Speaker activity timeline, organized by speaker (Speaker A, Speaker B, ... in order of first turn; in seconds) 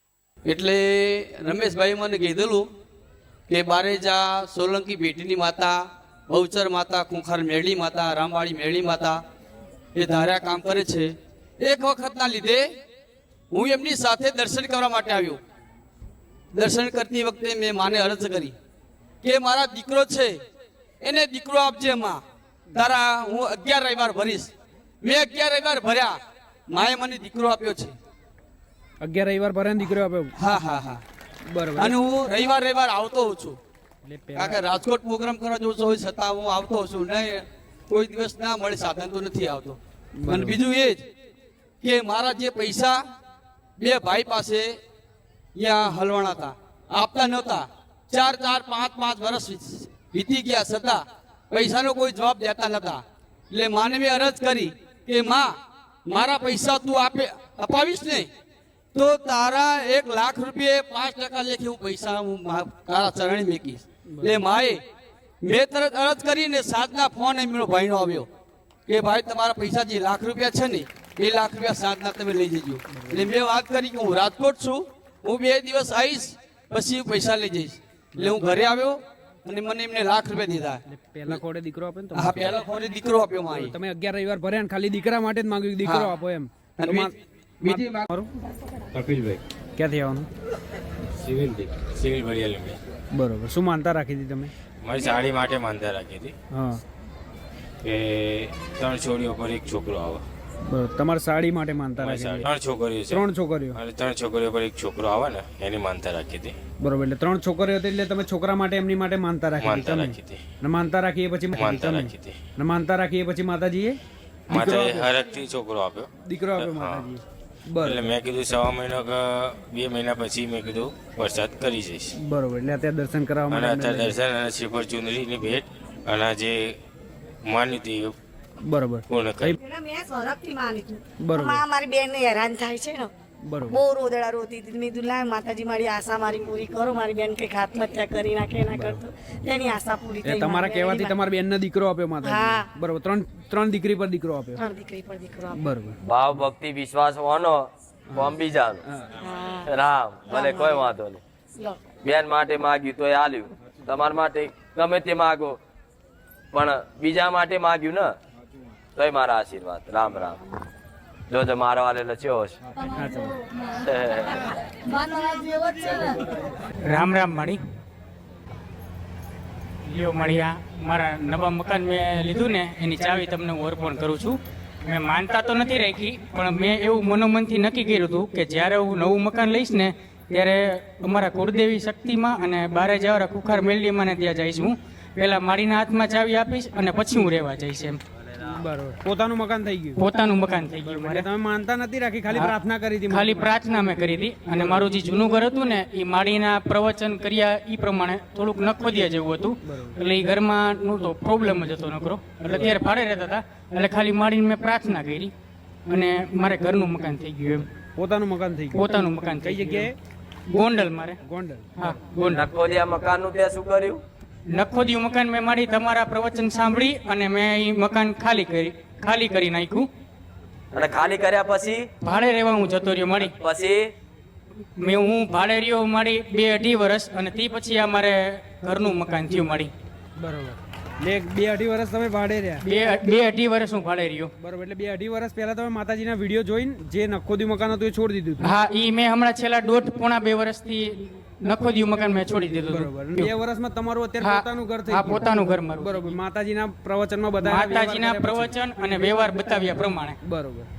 Speaker A: 0.4-2.7, 3.5-9.2, 9.9-12.7, 13.5-15.4, 16.5-18.6, 19.2-20.4, 21.0-22.2, 22.7-24.5, 25.0-26.2, 26.7-27.9, 30.4-31.0, 31.8-33.6, 34.3-41.0, 41.8-43.0, 43.8-44.8, 45.5-58.3, 58.9-64.8, 65.4-68.3, 68.9-81.4, 82.1-83.7, 85.8-86.1, 86.8-88.1
Speaker B: 29.0-30.3, 31.5-31.9, 34.0-34.6, 40.2-40.6, 64.1-64.4, 72.9-73.3, 78.1-78.7, 80.9-82.6, 83.5-87.1, 87.6-88.3, 89.8-90.3, 93.1-94.5, 96.5-96.8, 100.7-102.5, 103.1-103.8, 106.8-114.0, 114.5-115.1, 116.2-118.0, 122.2-124.2, 128.6-129.5, 131.2-131.6, 133.5-133.8, 138.7-139.0, 140.2-144.6, 145.6-146.0, 148.8-149.1, 162.9-163.4, 188.4-190.0, 190.8-193.5, 199.7-200.0, 208.0-209.9, 211.2-211.7, 230.2-232.6, 234.4-238.5, 242.7-248.5, 250.2-250.7
Speaker C: 89.0-89.4, 91.2-92.8, 94.8-96.3, 97.8-100.2, 102.0-106.5, 109.6-110.4, 111.6-112.4, 114.5-117.1, 117.8-122.1, 123.5-126.8, 127.4-128.1, 129.1-129.6
Speaker D: 129.5-133.1, 133.7-141.2, 142.2-142.7, 144.6-145.6, 149.2-149.7, 150.3-150.9, 151.6-151.8
Speaker E: 146.1-148.8, 149.7-151.2, 152.0-155.6, 156.5-158.1, 159.0-160.4, 161.3-162.6, 163.7-164.5, 212.3-214.0, 220.7-221.8, 223.2-223.9
Speaker F: 166.9-167.6, 169.8-188.0, 190.0-191.2, 193.1-205.3, 205.9-207.7, 208.8-209.9, 210.5-211.2, 211.8-212.5, 214.5-219.9, 222.0-223.3, 224.8-229.7, 232.7-234.3, 238.4-243.3, 244.2-246.0, 247.4-250.2